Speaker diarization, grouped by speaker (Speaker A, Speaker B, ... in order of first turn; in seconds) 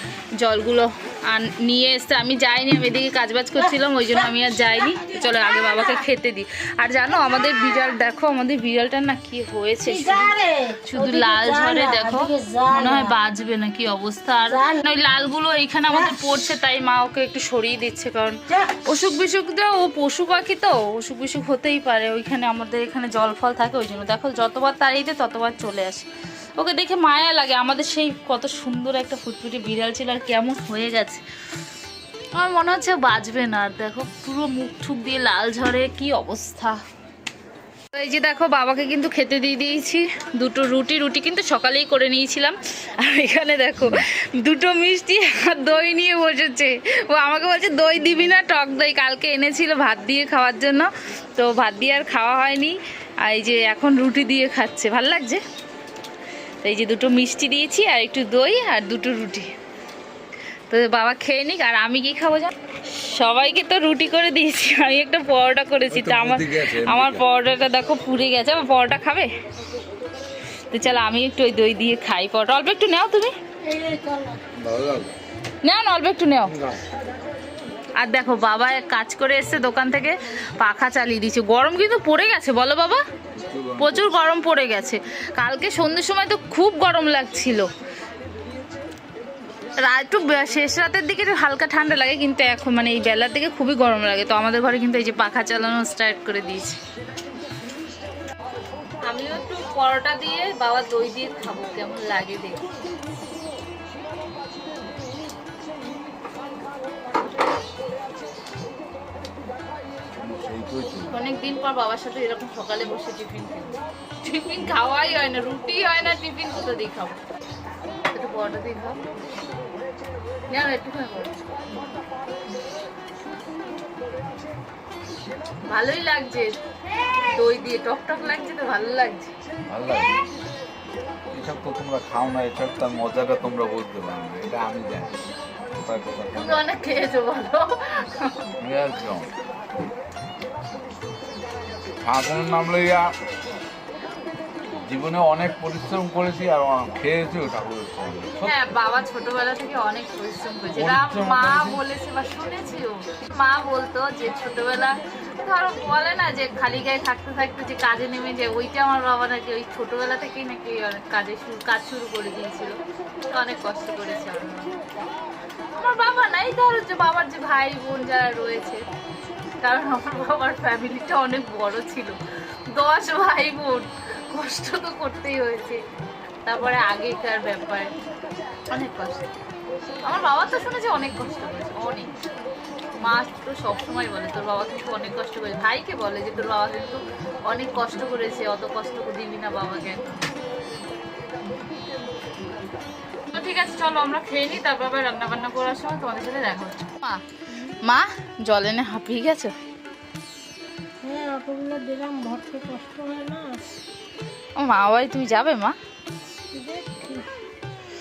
Speaker A: 0.4-10.3, 10.9-31.2, 32.4-36.8, 37.9-55.4, 56.6-59.5, 60.7-69.3, 70.7-73.3, 75.6-76.6, 78.0-83.0, 83.8-87.7, 89.8-96.8, 99.0-102.7, 111.1-117.2, 118.1-119.0, 120.5-121.4, 125.7-126.5, 127.3-129.3, 136.3-138.5, 148.4-164.7, 165.7-168.8, 169.6-172.2, 172.7-175.8, 176.4-177.9, 178.7-179.2, 180.0-182.1, 183.0-190.2, 193.3-197.2, 197.8-199.5, 204.6-205.8
Speaker B: 3.6-6.0, 9.8-13.2, 14.4-14.8, 15.9-16.1, 73.6-74.4, 201.0-203.7, 206.5-207.3
Speaker C: 65.9-67.2, 74.5-75.1, 83.3-84.1, 110.2-111.1, 129.7-130.2, 131.3-136.6, 138.6-139.3, 142.0-143.1, 144.7-148.5, 150.7-151.8